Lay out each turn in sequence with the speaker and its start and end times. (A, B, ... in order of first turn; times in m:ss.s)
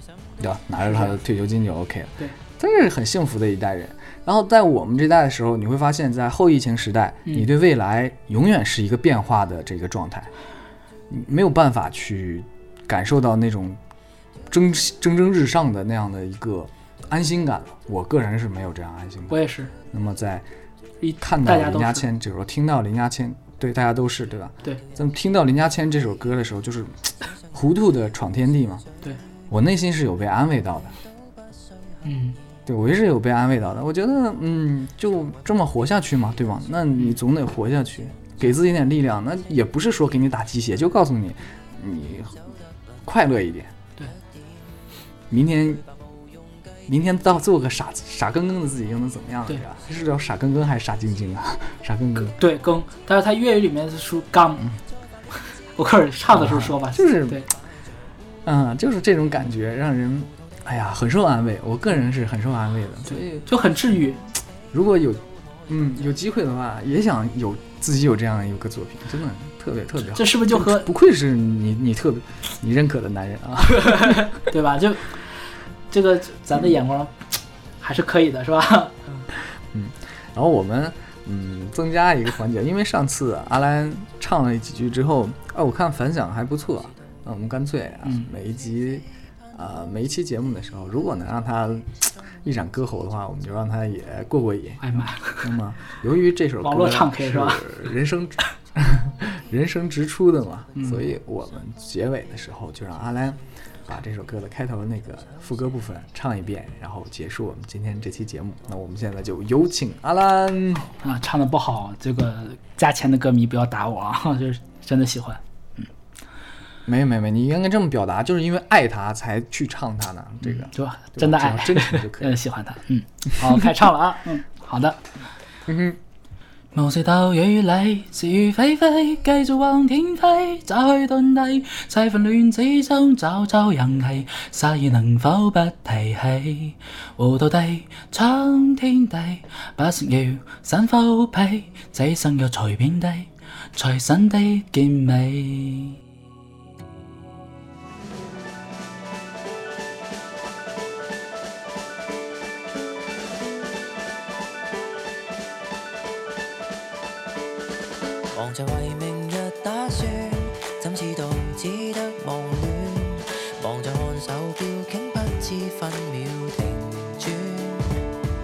0:00.4-0:10.3 A
0:00.8-0:01.2 B
0:11.1-0:13.8 A
0:14.5-0:19.4 A
0:19.3-0:19.7 B
0:19.9-0:20.4 A
0:21.0-0:22.1 B
0:21.2-0:28.9 A
0:29.5-0:31.0 A
0:32.0-0:32.4 B
0:32.6-0:42.4 A
0:43.0-0:43.7 A
0:45.3-0:45.8 A
0:46.9-0:52.4 A
0:52.3-0:54.7 B
0:55.8-0:57.5 B
0:56.3-0:57.4 A
0:58.4-1:03.5 A
1:03.1-1:04.2 B
1:04.7-1:14.3 A
1:10.1-1:10.9 B
1:13.8-1:15.2 B
1:15.9-1:19.2 B
1:19.7-1:50.9 A
1:28.0-1:28.3 B
1:34.8-1:35.5 B
1:36.6-1:37.8 B
1:40.7-1:41.0 B
1:51.0-1:55.9 B
1:56.8-2:02.4 A
2:00.4-2:05.0 B
2:05.7-2:06.0 A
2:06.7-2:26.0 B
2:38.3-2:48.0 C